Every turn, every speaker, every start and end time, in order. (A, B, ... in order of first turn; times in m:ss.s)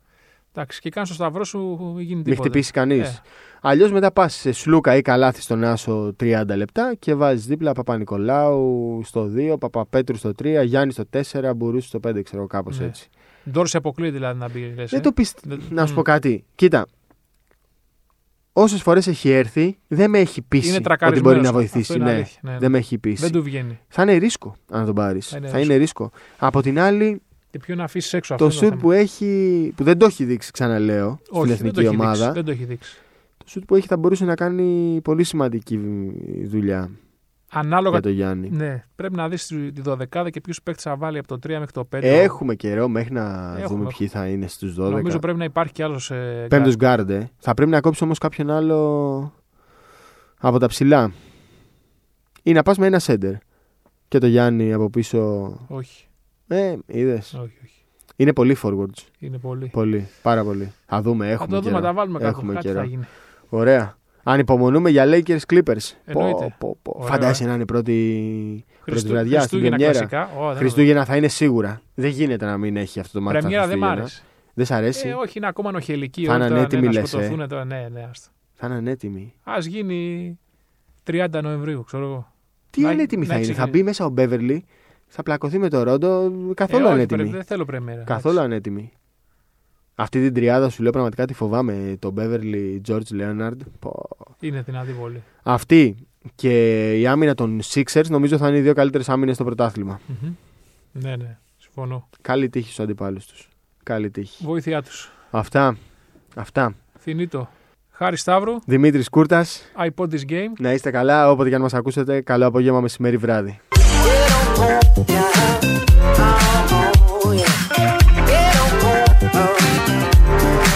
0:00.5-0:03.2 A
0:02.3-0:13.0 B
0:12.7-0:16.0 A
0:14.9-0:16.9 B
0:18.6-0:23.4 B
0:20.6-0:23.8 A
0:23.9-0:27.2 B
0:25.3-0:25.7 A
0:27.5-0:28.9 A
0:28.4-0:32.4 B
0:31.3-0:33.0 A
0:33.4-0:36.9 B
0:37.5-0:42.4 A
0:37.9-0:38.5 B
0:42.0-0:45.2 B
0:43.5-0:44.0 A
0:44.9-0:46.7 A
0:46.5-0:49.3 B
0:50.4-0:51.1 B
0:52.4-0:53.4 B
0:54.1-0:55.7 B
0:55.7-0:56.1 A
0:56.5-0:57.3 B
0:57.3-0:57.7 A
0:58.2-0:59.1 B
0:59.2-0:59.8 A
0:59.7-1:02.9 B
1:01.4-1:03.1 A
1:03.5-1:15.2 B
1:06.1-1:07.4 A
1:08.8-1:10.9 A
1:13.3-1:14.2 A
1:15.0-1:18.3 A
1:16.2-1:17.4 B
1:18.6-1:19.3 B
1:19.4-1:20.4 A
1:21.0-1:23.8 A
1:22.7-1:27.4 B
1:26.7-1:28.4 A
1:28.1-1:28.9 B
1:30.0-1:34.3 B
1:34.4-1:35.3 A
1:35.4-1:40.0 B
1:40.1-1:40.4 A
1:41.0-1:42.0 A
1:42.2-1:44.4 B
1:44.4-1:45.1 A
1:45.3-1:45.8 B
1:46.4-1:46.8 B
1:47.0-1:48.7 A
1:48.7-1:49.7 B
1:49.8-1:50.6 A
1:50.6-1:53.6 B
1:53.9-2:00.0 C